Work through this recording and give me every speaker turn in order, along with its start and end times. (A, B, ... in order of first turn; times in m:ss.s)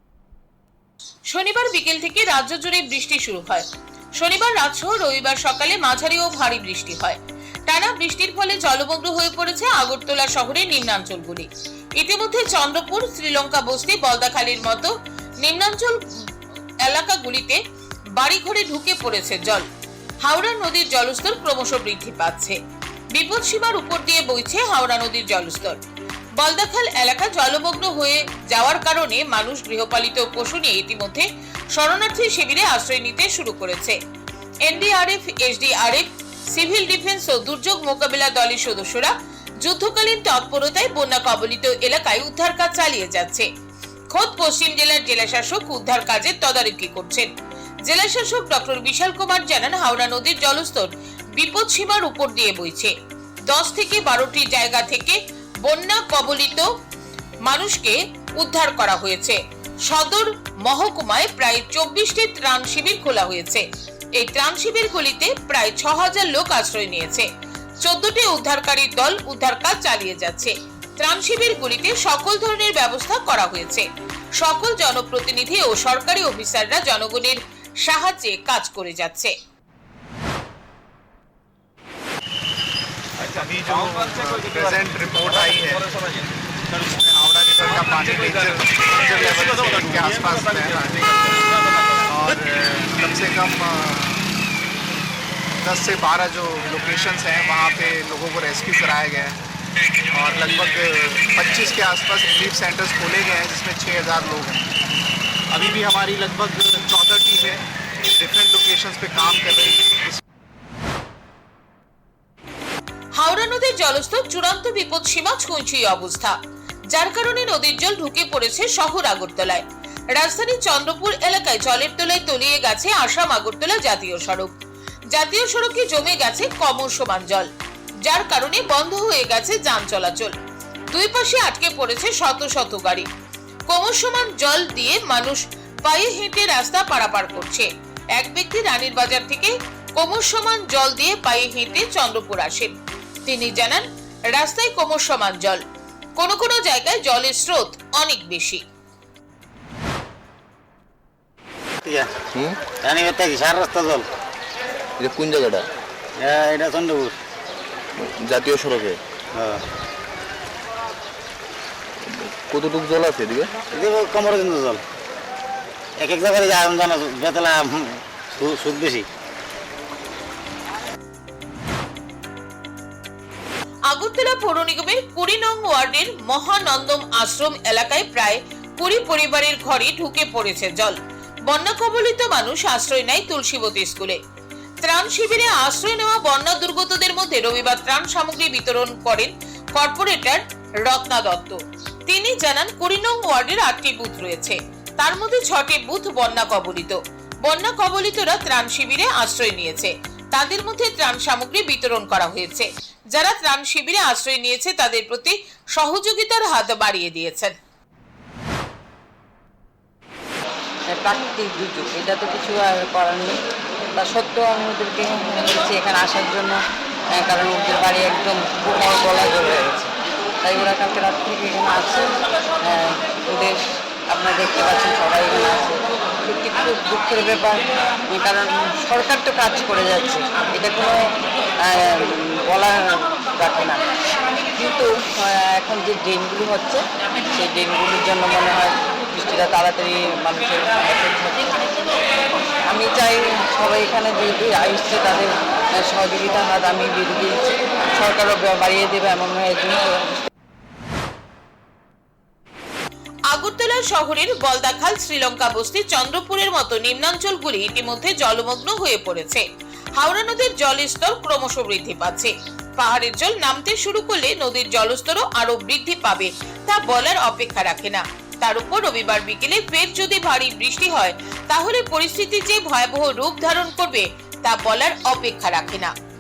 0:01.3-0:03.6 A
0:04.2-0:16.0 A
0:16.8-0:17.6 A
0:18.2-0:19.7 A
0:20.2-0:22.6 A
0:23.1-0:25.8 A
0:26.4-0:34.0 A
0:34.6-0:43.5 A
0:44.1-0:47.3 A
0:47.9-0:52.9 A
0:53.5-0:56.7 A
0:57.4-1:07.3 A
1:07.8-1:19.3 A
1:23.3-1:25.8 B
1:26.8-1:31.3 B
1:32.1-1:34.3 B
1:35.6-1:39.4 B
1:40.1-1:44.7 B
1:45.5-1:50.2 B
1:53.2-1:56.4 A
1:56.9-2:04.5 A
2:05.1-2:07.5 A
2:08.0-2:10.3 A
2:10.9-2:13.1 A
2:13.7-2:22.8 A
2:23.2-2:25.6 A
2:26.2-2:28.6 A
2:31.8-2:32.1 C
2:32.3-2:32.6 D
2:32.8-2:34.1 C
2:35.0-2:35.6 D
2:36.2-2:37.2 C
2:38.0-2:39.0 D
2:39.4-2:39.6 C
2:42.1-2:43.5 D
2:43.7-2:44.8 C
2:46.0-2:49.1 C
2:53.9-3:04.2 A
3:04.8-3:27.6 A
3:30.9-3:33.3 E
3:34.0-3:36.6 E
3:37.2-3:39.9 E
3:40.4-3:42.0 E
3:42.6-3:43.6 E
3:44.1-3:51.0 E
3:51.6-3:53.8 E
3:54.6-4:01.6 E
4:02.7-4:05.3 E
4:05.8-4:10.3 E
4:13.3-4:19.4 A
4:20.0-4:35.9 A